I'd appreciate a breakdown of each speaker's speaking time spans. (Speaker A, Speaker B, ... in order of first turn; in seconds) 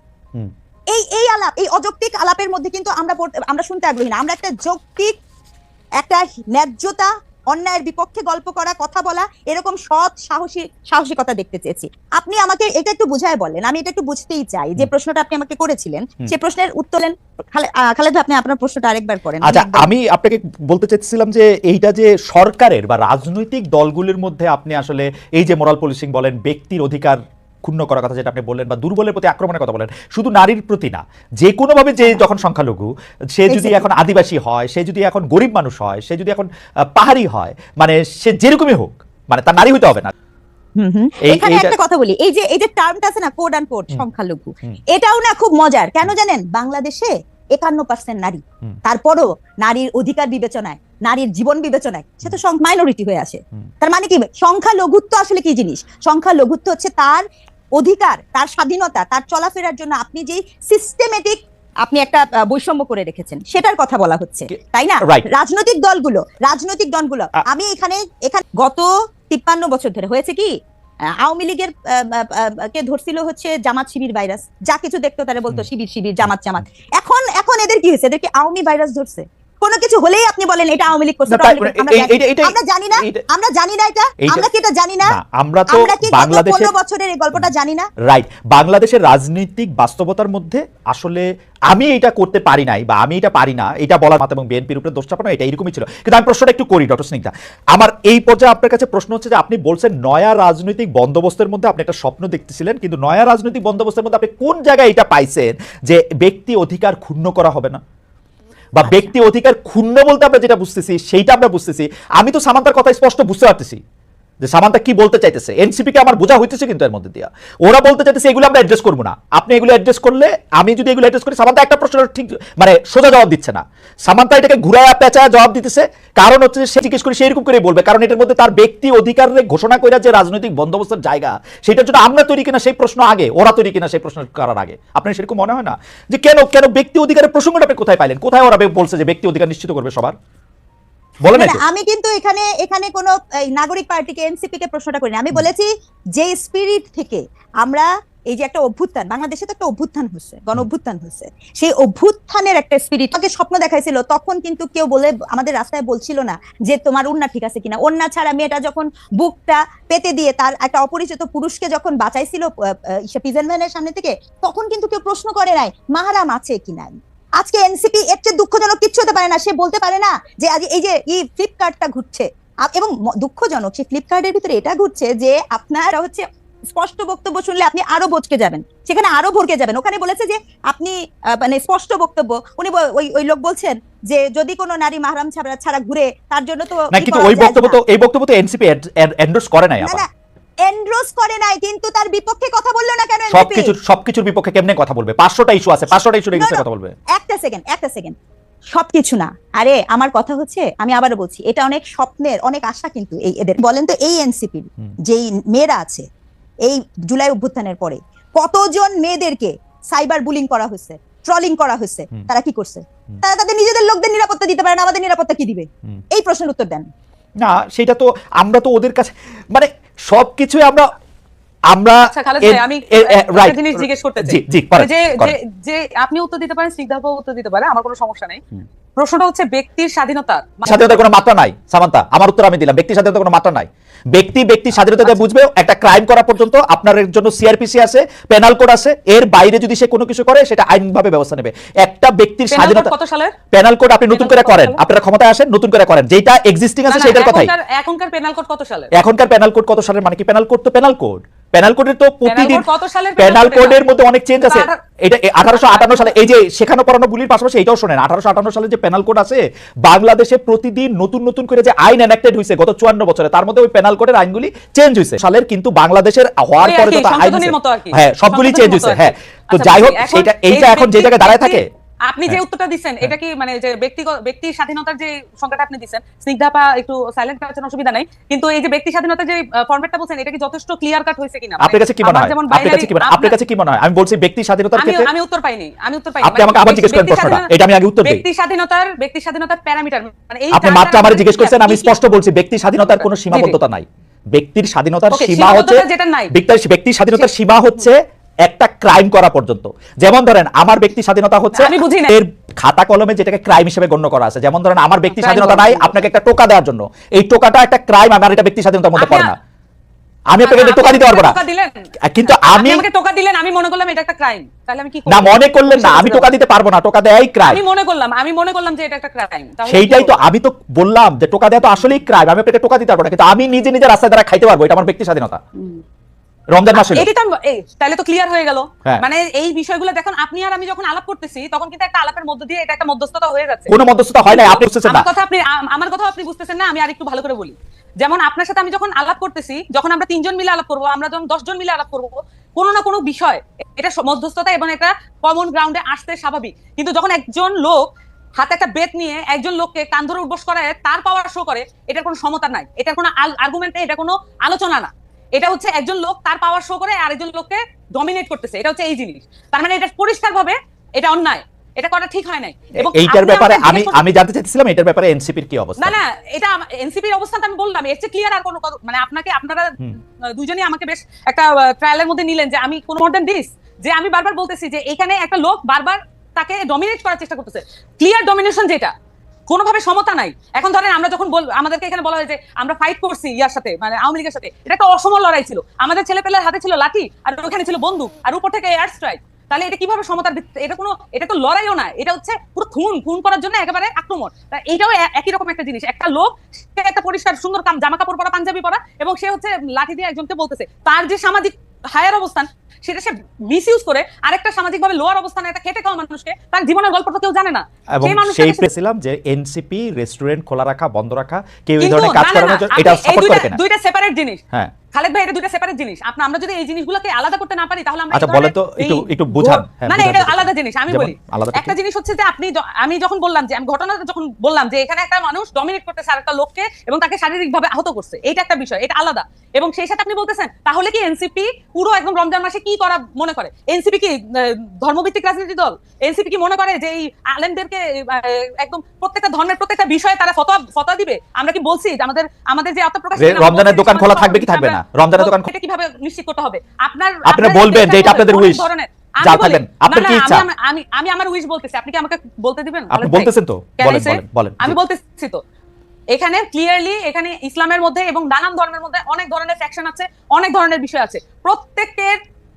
Speaker A: 0.9-5.1, 6.0-19.9, 33.5-33.8, 40.8-57.2, 57.8-70.5, 71.2-85.1, 85.7-87.9, 108.8-109.1, 141.3-162.5, 163.1-187.8, 190.6-193.7, 196.3-196.6, 197.1-198.1, 198.7-206.0, 206.6-216.8
Speaker B: 19.4-40.1, 41.2-41.8, 64.5-65.3, 81.3-83.2, 85.1-86.7, 88.0-107.8, 108.7-113.8, 114.4-140.1, 141.2-141.6, 186.9-190.0, 193.3-196.9, 217.4-220.9, 221.7-225.3, 230.6-242.9, 243.5-247.5, 248.9-252.6, 253.2-271.7, 281.6-285.1, 286.2-288.2, 290.5-309.4, 310.3-311.4, 312.0-312.9, 315.1-317.6, 319.6-325.4, 326.5-327.1, 333.7-335.1, 362.8-366.0, 407.9-413.6, 418.1-421.7, 443.2-445.5, 447.2-448.6, 449.2-450.4, 452.9-454.8
Speaker C: 222.1-228.4, 229.0-231.0, 242.5-243.3, 244.1-244.8, 246.9-248.9, 252.2-253.8, 254.4-254.8, 255.5-256.1, 266.6-283.4, 284.8-287.5, 288.0-291.9, 293.0-293.6, 295.1-296.3, 301.5-302.2, 305.1-305.9, 309.0-309.3, 310.4-316.3, 317.4-320.2, 326.7-364.0, 365.8-369.8, 370.3-378.9, 379.5-408.7, 411.8-414.4, 414.9-455.4, 456.1-462.2